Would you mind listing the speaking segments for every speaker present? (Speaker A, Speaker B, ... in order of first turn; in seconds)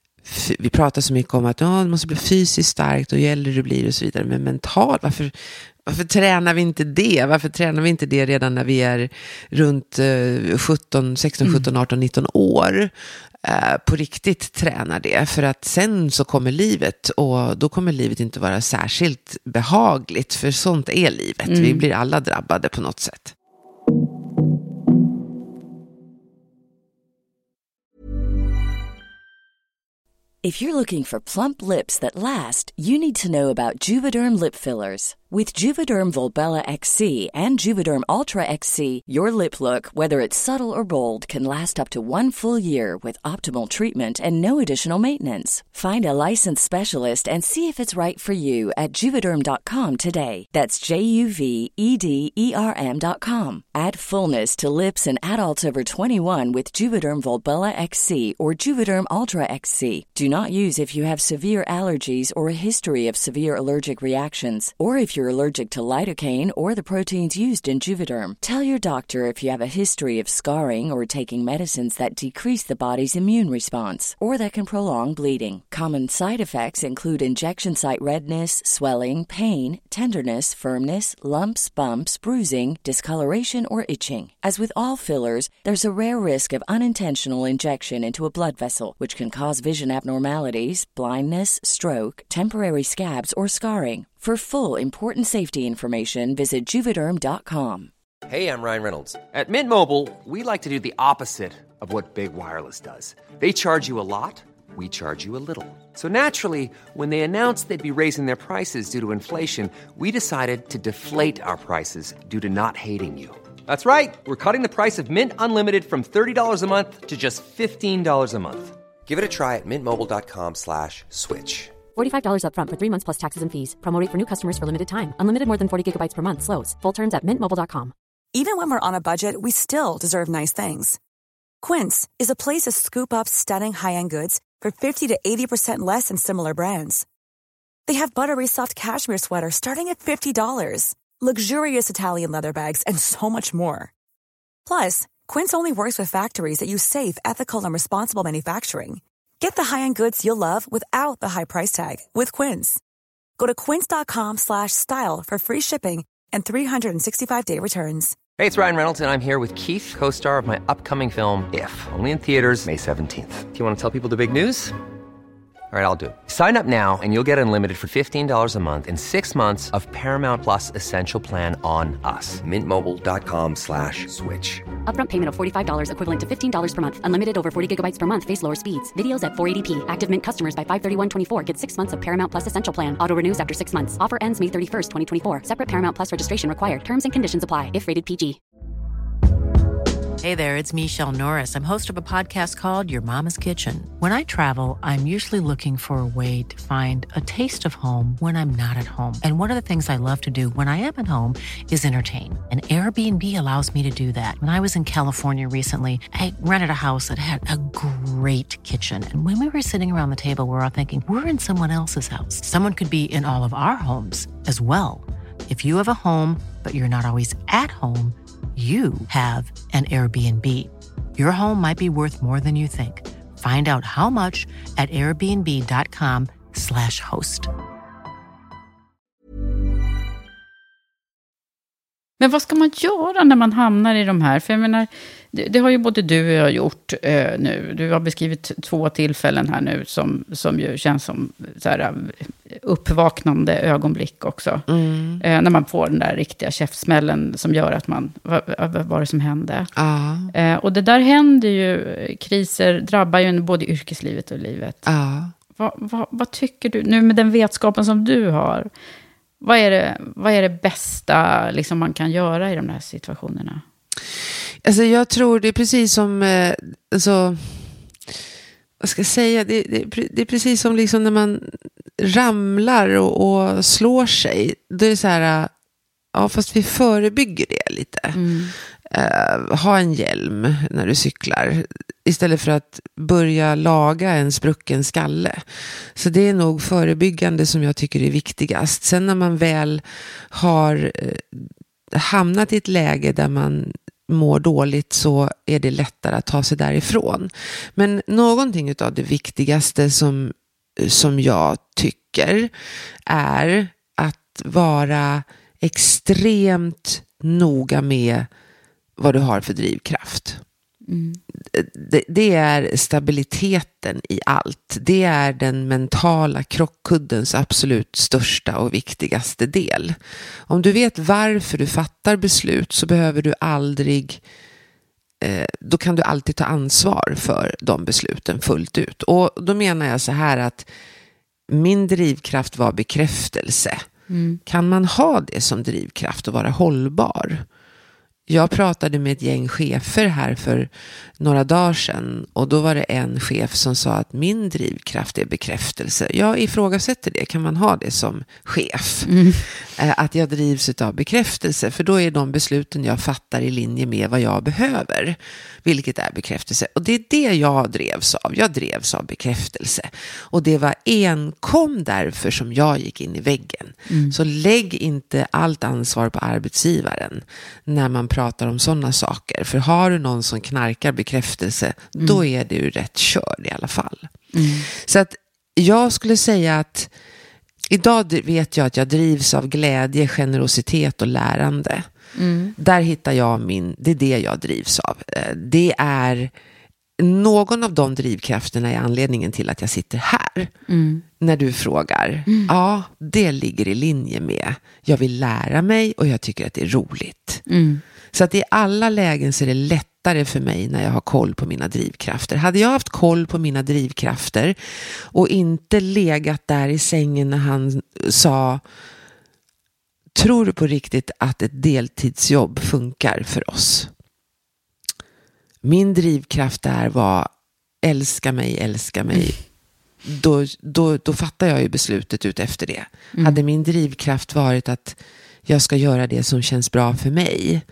Speaker A: 0.2-5.3, 5.8-12.9, 13.4-23.3, 244.7-245.2, 249.8-250.3, 254.8-255.3, 264.6-267.7, 268.8-275.5, 276.1-278.2, 278.9-302.5, 303.1-308.3, 309.0-310.4, 311.5-324.2, 325.2-330.7, 331.5-333.8, 334.4-337.4, 338.3-376.9, 377.7-381.9, 382.6-386.3, 387.0-390.5, 391.2-397.4, 398.1-408.6, 410.1-413.9, 415.6-417.3, 417.8-419.4, 420.0-427.6
Speaker B: 21.4-21.8, 232.2-244.7, 245.2-249.7, 250.3-254.8, 255.6-258.7, 259.4-263.6, 278.1-278.5, 310.9-311.2, 334.1-334.4, 349.1-349.4, 363.9-364.1, 374.3-374.7, 382.1-382.5, 390.7-391.0, 397.5-397.8, 423.1-423.4
Speaker C: 30.4-97.9
Speaker D: 98.3-121.7, 158.4-164.7, 165.7-174.6
Speaker E: 121.9-127.9, 174.8-188.4
Speaker F: 128.3-131.0, 131.6-137.0, 137.8-143.9, 144.7-152.8, 153.4-158.2
Speaker G: 190.2-227.5